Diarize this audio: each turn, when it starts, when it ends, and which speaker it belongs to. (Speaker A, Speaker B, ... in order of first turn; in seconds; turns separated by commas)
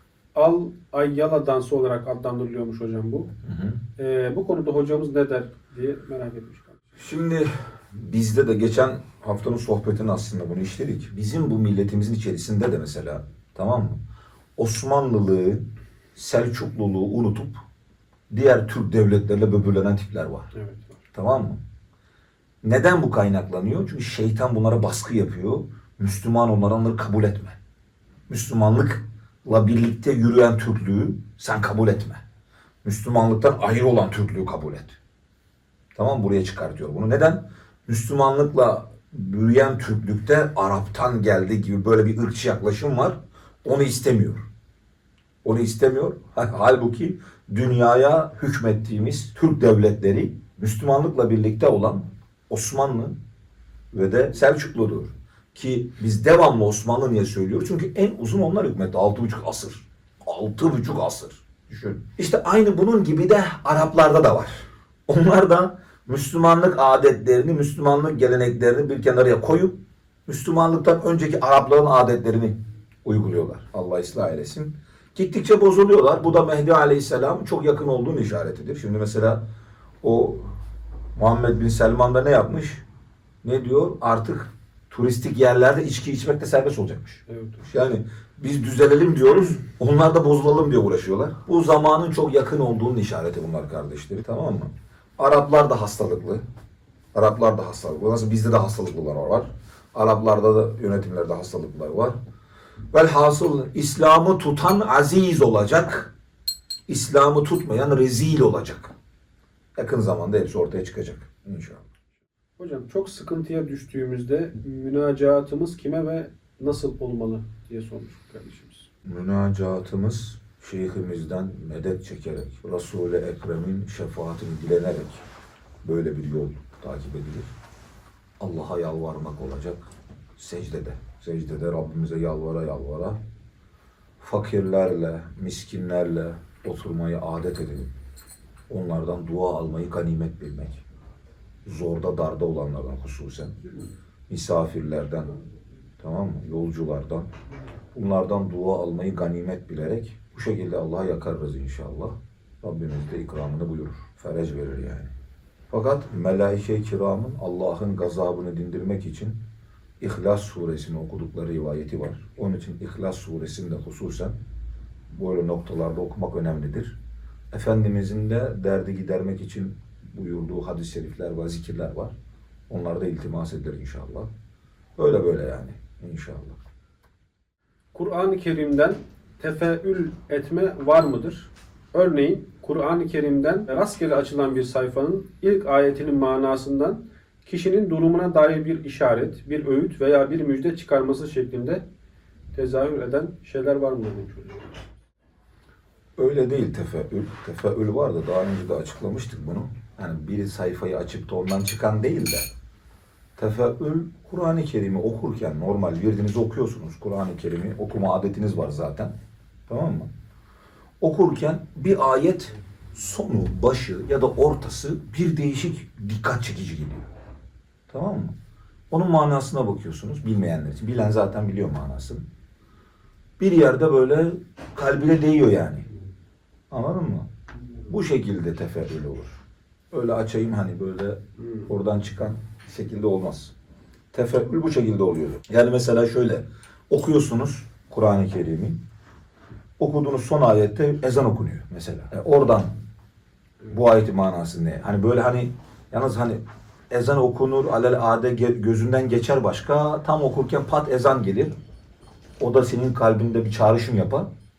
Speaker A: 0.3-3.3, Speaker B: 3.4-3.8, Speaker A: 4.0-6.8, Speaker B: 7.0-14.0, Speaker B: 14.6-17.5, Speaker B: 18.3-20.5, Speaker A: 20.5-21.0, Speaker B: 21.1-21.6, Speaker B: 22.6-27.6, Speaker B: 28.3-32.2, Speaker B: 32.8-35.0, Speaker B: 35.9-44.5, Speaker B: 45.4-53.2, Speaker B: 53.9-79.4, Speaker B: 80.0-80.5, Speaker B: 81.2-82.8, Speaker B: 83.4-96.4, Speaker A: 87.3-87.7, Speaker B: 97.1-102.2, Speaker B: 102.9-106.1, Speaker B: 106.9-108.9, Speaker B: 109.8-111.8, Speaker A: 112.6-118.9, Speaker B: 119.0-125.2, Speaker B: 125.8-127.5, Speaker B: 128.4-133.2, Speaker B: 134.2-137.9, Speaker B: 138.7-140.8, Speaker B: 141.6-143.6, Speaker B: 144.3-145.4, Speaker B: 146.0-147.3, Speaker B: 147.9-155.1, Speaker B: 155.7-159.4, Speaker B: 160.0-164.4, Speaker B: 165.1-167.0, Speaker B: 167.5-172.2, Speaker B: 172.7-174.3, Speaker B: 175.0-176.6, Speaker A: 177.9-191.8, Speaker A: 192.5-194.7, Speaker B: 196.2-202.5, Speaker B: 203.4-209.1, Speaker B: 209.7-210.1, Speaker B: 211.0-217.1, Speaker B: 217.9-218.3, Speaker B: 218.9-222.2, Speaker B: 223.4-225.9, Speaker B: 226.7-227.3, Speaker B: 227.9-229.4, Speaker B: 229.9-233.5, Speaker B: 234.1-238.8, Speaker B: 239.8-242.7, Speaker B: 243.6-251.5, Speaker B: 252.4-254.3